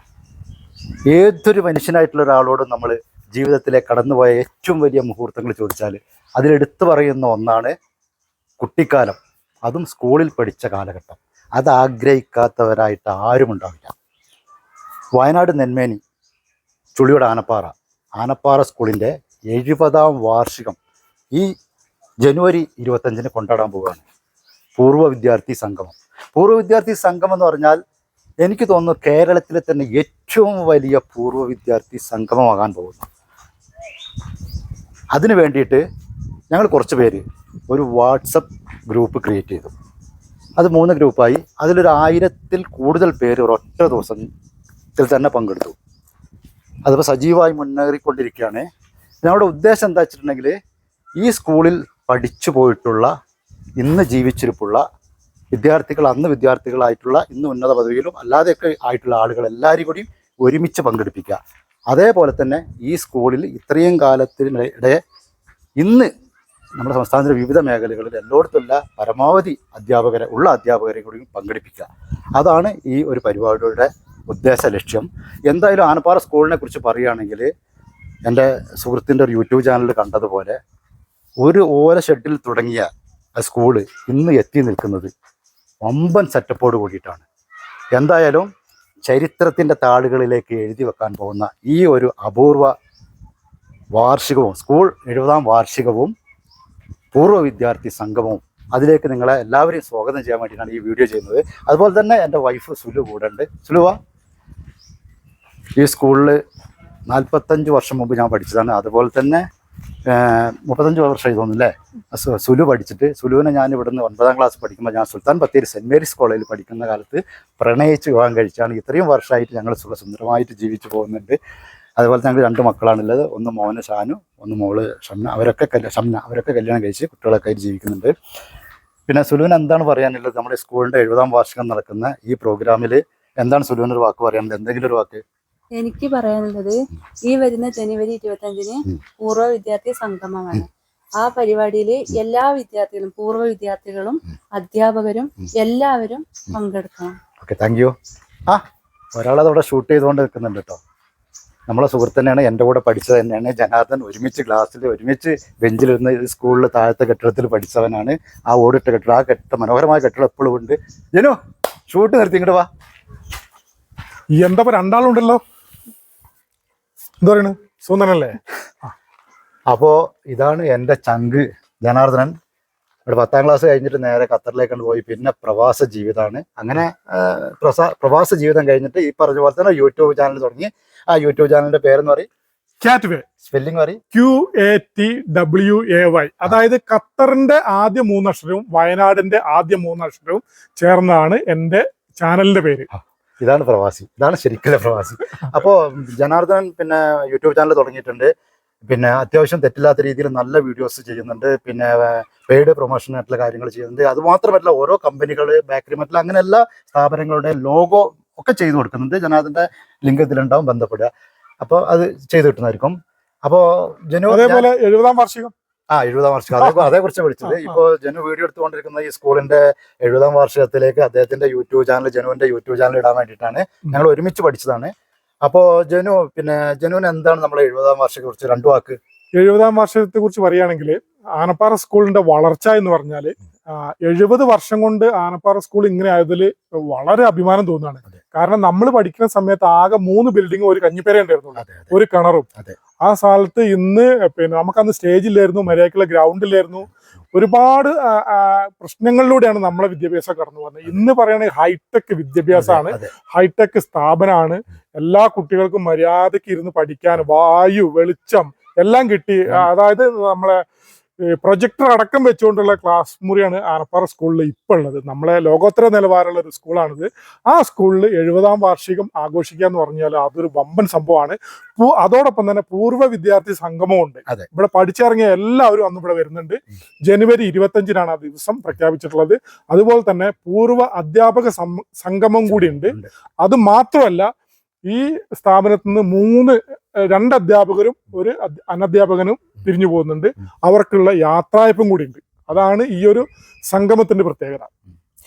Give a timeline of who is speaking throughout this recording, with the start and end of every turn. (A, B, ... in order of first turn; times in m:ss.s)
0:01.1-0:07.7 A
0:08.6-0:13.9 A
0:15.2-0:16.0 A
0:17.0-0:20.8 A
0:22.2-0:24.0 A
0:24.8-0:27.8 A
0:28.4-0:33.1 A
0:35.1-0:35.8 A
0:36.5-0:39.7 A
0:40.6-0:44.3 A
0:45.0-0:45.8 A
0:46.8-0:48.7 A
0:49.2-0:50.6 A
0:51.2-0:53.1 A
0:53.8-0:54.8 A
0:55.5-1:05.0 A
1:05.8-1:06.1 A
1:06.8-1:17.5 A
1:18.3-1:20.6 A
1:21.4-1:25.1 A
1:25.8-1:27.2 A
1:28.0-1:28.5 A
1:29.1-1:32.7 A
1:34.0-1:36.1 A
1:37.1-1:44.0 A
1:45.8-1:46.4 A
1:47.1-1:49.5 A
1:50.1-2:01.4 A
2:02.0-2:08.1 A
2:09.1-2:15.2 A
2:15.8-2:27.2 B
2:27.4-2:27.9 A
2:29.2-2:30.8 A
2:31.7-2:41.4 A
2:41.9-2:42.7 A
2:44.4-2:45.4 C
2:47.2-2:48.4 C
2:49.7-2:52.3 A
2:53.1-3:02.3 A
3:02.8-3:03.3 C
3:03.4-3:04.0 A
3:04.1-3:12.9 C
3:12.9-3:18.3 A
3:18.8-3:31.1 A
3:31.6-3:34.7 A
3:34.3-3:35.5 C
3:35.9-3:44.9 A
3:45.4-3:49.0 A
3:49.4-4:02.5 C
4:01.6-4:01.9 A
4:03.0-4:20.6 C
4:12.5-4:13.1 A
4:21.2-4:44.3 C
4:42.5-4:43.1 A
4:44.9-4:54.7 C